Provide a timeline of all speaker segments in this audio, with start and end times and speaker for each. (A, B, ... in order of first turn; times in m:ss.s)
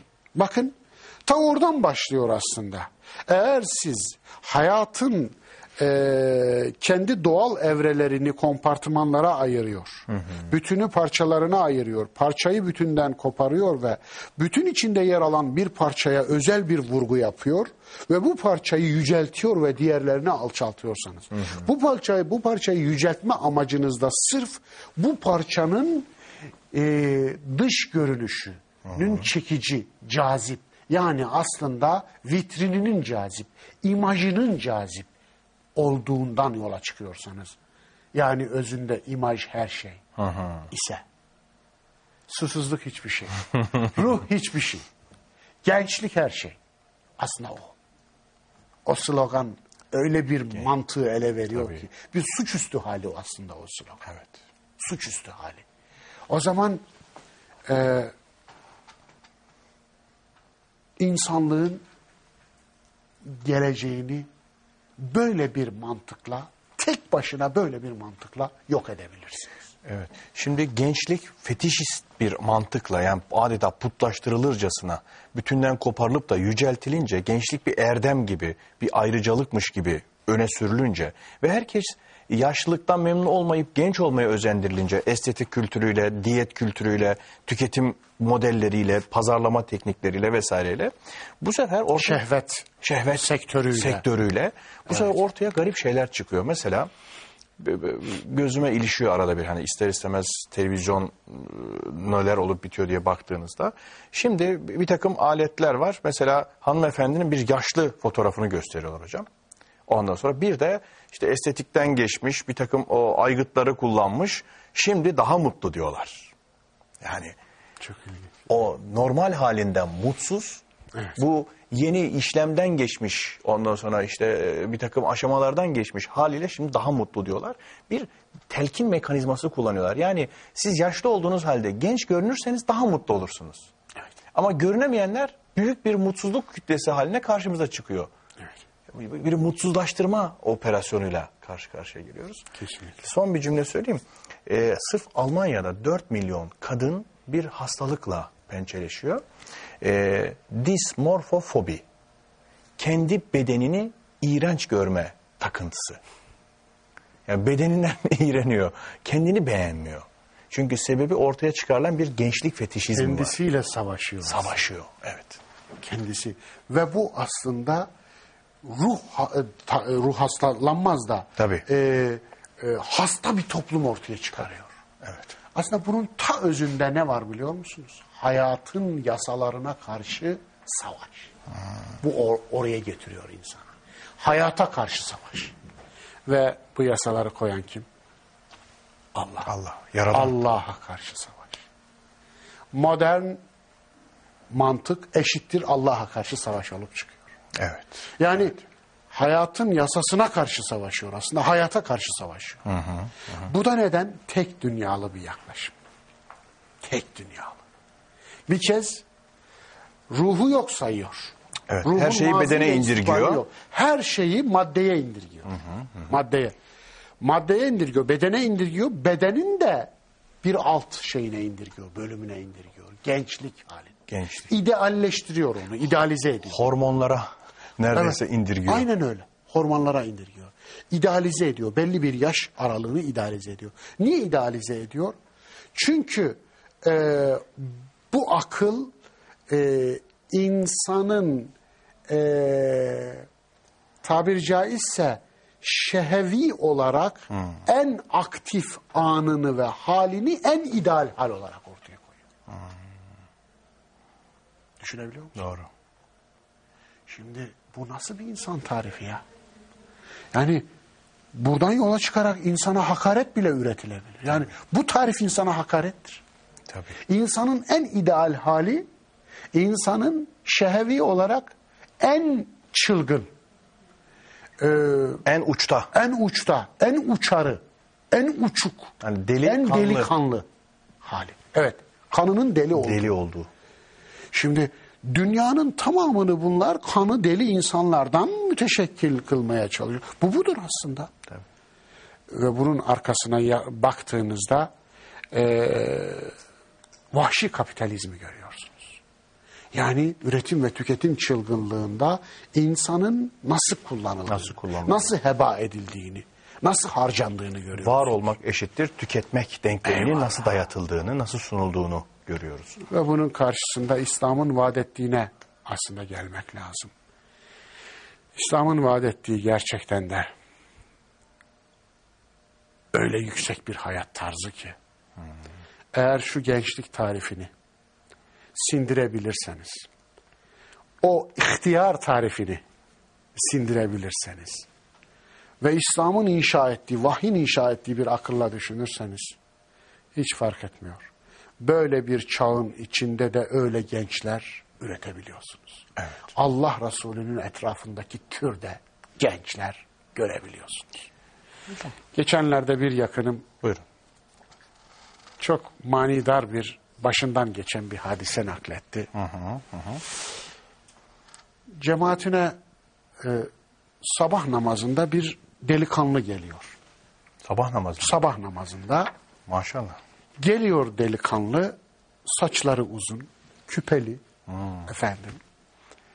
0:00.4-0:26.1 A
0:26.7-0:35.1 A
0:35.8-0:37.6 A
0:38.1-0:40.0 A
0:40.2-0:40.7 B
0:40.7-0:41.0 A
0:42.3-0:44.9 A
0:45.6-0:46.6 A
0:47.2-0:47.8 A
0:48.9-0:54.0 A
0:51.6-0:51.8 B
0:54.0-0:54.3 B
0:54.8-0:55.6 A
0:56.3-0:56.8 A
0:57.7-0:58.1 A
1:01.0-1:01.8 A
1:03.2-1:04.3 A
1:05.0-1:09.6 A
1:09.8-1:32.2 B
1:32.0-1:34.0 A
1:32.8-1:36.9 B
1:37.6-1:49.3 B
1:49.9-1:56.3 B
1:57.0-1:57.4 B
1:57.8-1:58.3 A
1:58.5-2:00.6 B
2:01.2-2:13.7 B
2:14.3-2:18.1 B
2:18.9-2:22.5 B
2:22.6-2:23.0 A
2:23.0-2:29.2 B
2:29.8-2:31.8 B
2:32.8-2:36.0 B
2:37.3-2:43.4 B
2:43.0-2:44.6 A
2:44.2-2:45.4 B
2:45.8-2:47.9 A
2:48.6-2:54.7 A
2:51.4-2:51.7 B
2:55.0-2:55.3 B
2:55.5-3:01.3 A
3:02.0-3:03.7 A
3:04.2-3:05.5 A
3:06.3-3:07.9 A
3:09.1-3:09.5 A
3:09.5-3:10.4 B
3:10.1-3:11.6 A
3:12.7-3:13.4 A
3:14.5-3:17.2 A
3:17.6-3:18.1 B
3:18.2-3:22.6 A
3:22.7-3:23.5 B
3:23.4-3:25.8 A
3:26.8-3:27.6 A
3:28.5-3:29.0 A
3:30.1-3:36.6 A
3:31.7-3:33.4 B
3:37.2-3:44.0 A
3:44.1-3:44.5 B
3:44.5-3:46.7 A
3:46.5-3:48.9 B
3:47.9-3:55.2 A
3:55.8-3:58.9 A
3:59.5-4:01.5 A
4:02.1-4:03.3 A
4:04.0-4:12.2 A
4:14.8-4:15.4 A
4:15.4-4:15.7 B
4:17.1-4:19.2 A
4:20.3-4:20.7 A
4:21.3-4:26.2 A
4:26.7-4:27.0 B
4:27.1-4:28.9 A
4:29.5-4:33.3 A
4:34.6-4:35.2 A
4:35.2-4:35.9 B
4:35.9-4:40.5 A
4:39.0-4:40.1 B
4:41.0-4:43.0 A
4:42.8-4:43.5 B
4:44.3-4:51.1 A
4:52.3-4:54.7 A
4:55.3-4:56.4 A
4:57.1-4:59.0 A
4:59.7-5:08.1 A
5:04.3-5:05.1 B
5:07.8-5:12.8 B
5:09.9-5:10.5 A
5:12.8-5:16.9 A
5:18.4-5:20.3 A
5:22.9-5:24.8 A
5:25.9-5:27.5 A
5:28.6-5:29.9 A
5:31.0-5:32.6 A
5:33.4-5:34.7 A
5:35.6-5:39.4 A
5:40.2-5:41.1 A
5:41.6-5:51.0 A
5:52.1-5:53.5 A
5:55.4-5:59.1 A
5:59.1-6:00.0 B
6:01.7-6:02.6 A
6:03.2-6:03.5 A
6:04.0-6:06.8 A
6:07.4-6:08.2 B
6:08.0-6:09.1 A
6:09.5-6:10.0 B
6:10.4-6:14.2 A
6:14.5-6:14.8 B
6:14.9-6:15.4 A